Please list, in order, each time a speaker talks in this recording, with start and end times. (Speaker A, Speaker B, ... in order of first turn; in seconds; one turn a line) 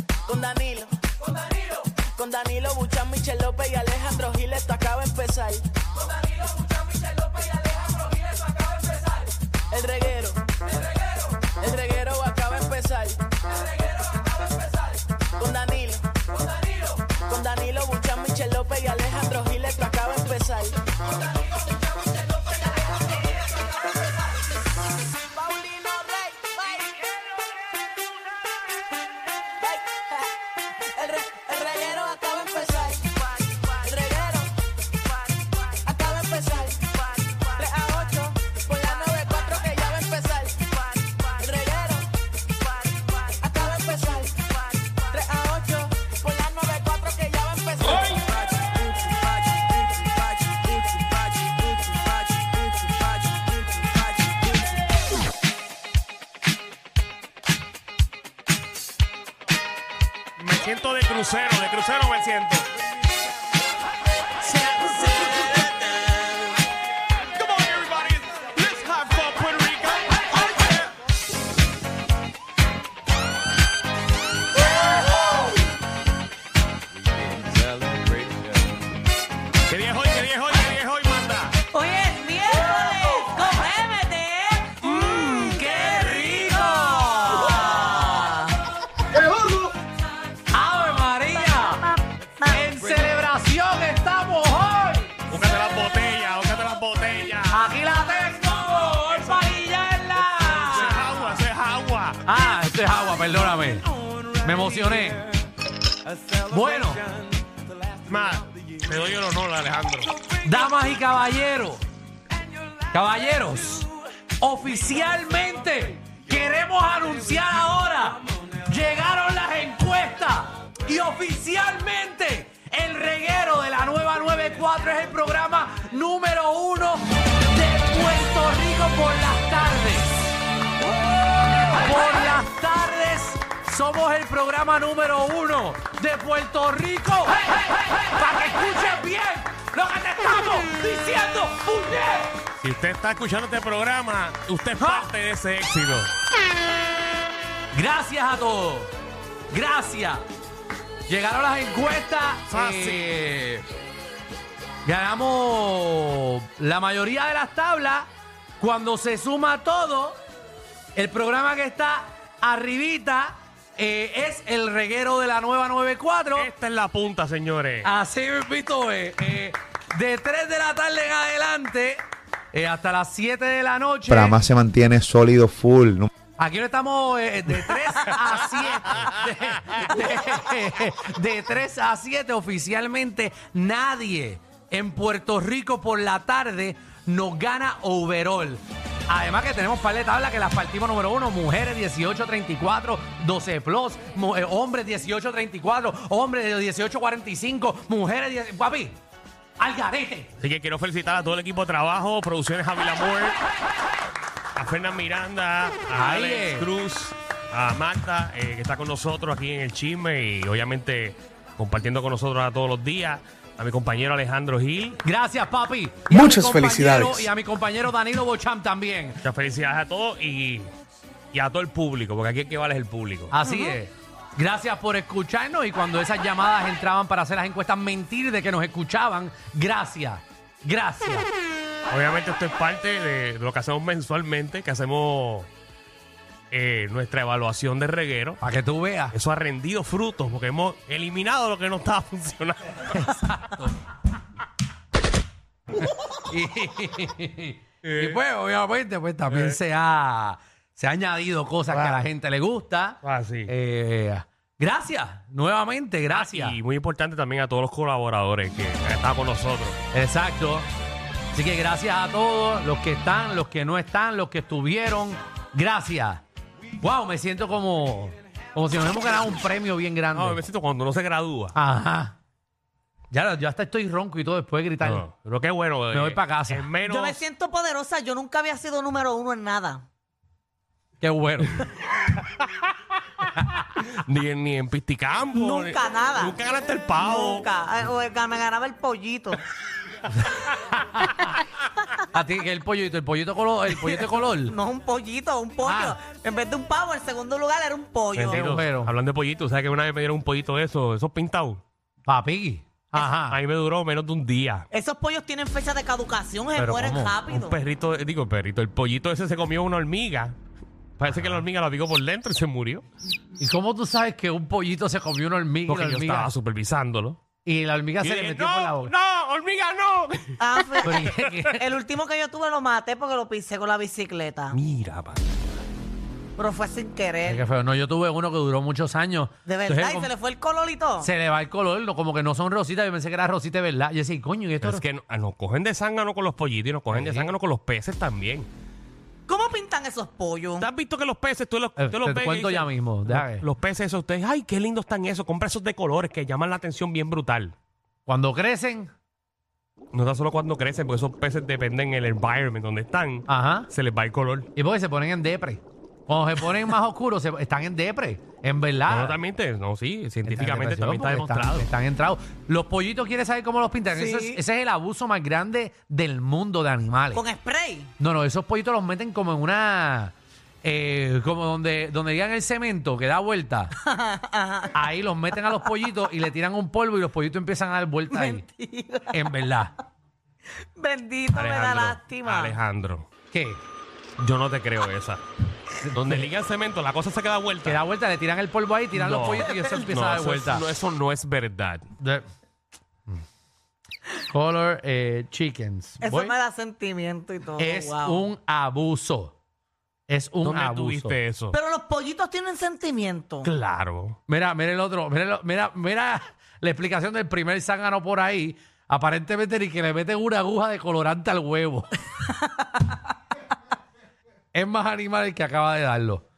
Speaker A: 0.2-1.0
Speaker A: 2.1-5.7
Speaker A: 9.7-10.4
Speaker A: 11.6-13.2
Speaker A: 15.4-16.1
Speaker A: 17.1-20.8
Speaker A: 25.3-27.1
Speaker A: 29.6-30.3
Speaker A: 30.8-34.5
Speaker A: 35.4-42.1
Speaker A: 42.7-54.8
Speaker B: 60.4-62.7
Speaker B: 64.5-66.4
Speaker B: 67.3-70.8
Speaker B: 77.5-78.4
Speaker B: 79.7-81.6
Speaker C: 81.7-84.9
Speaker B: 84.8-85.7
Speaker D: 84.9-88.3
Speaker C: 85.6-88.6
Speaker D: 90.5-91.8
Speaker C: 91.3-92.7
Speaker D: 92.5-95.2
Speaker B: 95.3-97.7
Speaker D: 97.5-101.3
Speaker B: 98.9-99.5
Speaker B: 100.3-102.2
Speaker D: 102.2-105.3
Speaker D: 106.2-107.1
Speaker B: 108.0-110.2
Speaker D: 110.4-111.8
Speaker D: 112.9-130.2
Speaker D: 131.5-137.4
Speaker D: 137.9-142.4
Speaker B: 142.6-146.1
Speaker D: 144.8-145.1
Speaker D: 147.7-148.9
Speaker D: 149.5-150.2
Speaker D: 151.1-153.7
Speaker B: 152.5-153.1
Speaker D: 154.8-158.1
Speaker D: 158.6-160.2
Speaker D: 160.9-166.5
Speaker B: 166.3-167.9
Speaker D: 167.8-172.0
Speaker D: 172.5-174.4
Speaker E: 174.1-176.1
Speaker D: 176.4-199.0
Speaker D: 199.6-200.3
Speaker B: 200.4-203.4
Speaker B: 204.5-215.0
Speaker D: 205.9-206.7
Speaker D: 215.0-219.2
Speaker E: 216.1-217.3
Speaker B: 219.2-220.7
Speaker B: 221.3-223.3
Speaker D: 223.3-231.3
Speaker C: 223.5-223.8
Speaker B: 231.9-235.5
Speaker B: 236.5-238.4
Speaker D: 238.4-239.2
Speaker B: 239.1-243.2
Speaker D: 242.9-243.7
Speaker D: 246.3-256.6
Speaker B: 247.8-248.2
Speaker B: 249.3-249.6
Speaker B: 251.7-252.0
Speaker B: 253.0-253.5
Speaker B: 256.1-259.8
Speaker D: 259.9-260.7
Speaker D: 261.3-266.2
Speaker D: 266.8-270.4
Speaker B: 270.1-271.6
Speaker D: 271.5-272.2
Speaker D: 273.1-275.1
Speaker B: 274.8-277.2
Speaker D: 275.9-276.7
Speaker C: 276.9-279.8
Speaker D: 281.0-281.6
Speaker B: 283.7-287.5
Speaker C: 285.4-286.4
Speaker C: 287.0-289.4
Speaker D: 290.2-291.3
Speaker D: 292.1-294.6
Speaker C: 293.9-298.4
Speaker D: 295.6-296.0
Speaker B: 298.1-301.6
Speaker D: 298.3-298.9
Speaker D: 302.1-303.4
Speaker B: 303.0-304.7
Speaker C: 304.7-307.6
Speaker D: 306.6-307.2
Speaker B: 307.3-310.4
Speaker B: 311.0-312.8
Speaker D: 311.1-311.4
Speaker D: 313.4-316.3
Speaker B: 315.7-317.2
Speaker D: 317.4-318.9
Speaker B: 318.0-321.5
Speaker C: 320.4-324.6
Speaker D: 320.8-321.6
Speaker B: 324.5-325.4
Speaker C: 326.4-327.4
Speaker D: 327.2-330.1
Speaker C: 329.5-331.1
Speaker D: 331.0-334.8
Speaker B: 334.6-338.5
Speaker D: 336.9-337.3
Speaker C: 339.3-340.7
Speaker B: 340.6-347.5
Speaker D: 341.8-343.4
Speaker D: 348.1-348.9
Speaker B: 349.9-354.5
Speaker D: 353.3-353.7
Speaker D: 354.6-359.2
Speaker B: 358.9-361.7
Speaker D: 360.2-367.2
Speaker C: 363.9-364.4
Speaker C: 367.1-367.9
Speaker D: 368.0-373.7
Speaker C: 373.8-374.8
Speaker D: 374.7-378.5
Speaker C: 378.1-379.2
Speaker D: 379.1-379.7
Speaker C: 380.7-382.6
Speaker B: 381.3-383.1
Speaker D: 383.3-383.6
Speaker B: 384.2-385.2
Speaker D: 385.8-386.3
Speaker B: 385.9-387.8
Speaker D: 387.6-390.7
Speaker B: 388.9-391.9
Speaker D: 394.3-396.4
Speaker C: 396.0-398.2
Speaker D: 397.6-399.4
Speaker D: 400.1-401.2
Speaker B: 400.4-401.6
Speaker C: 401.5-403.5
Speaker B: 403.4-404.2
Speaker D: 404.3-411.9
Speaker D: 414.5-416.2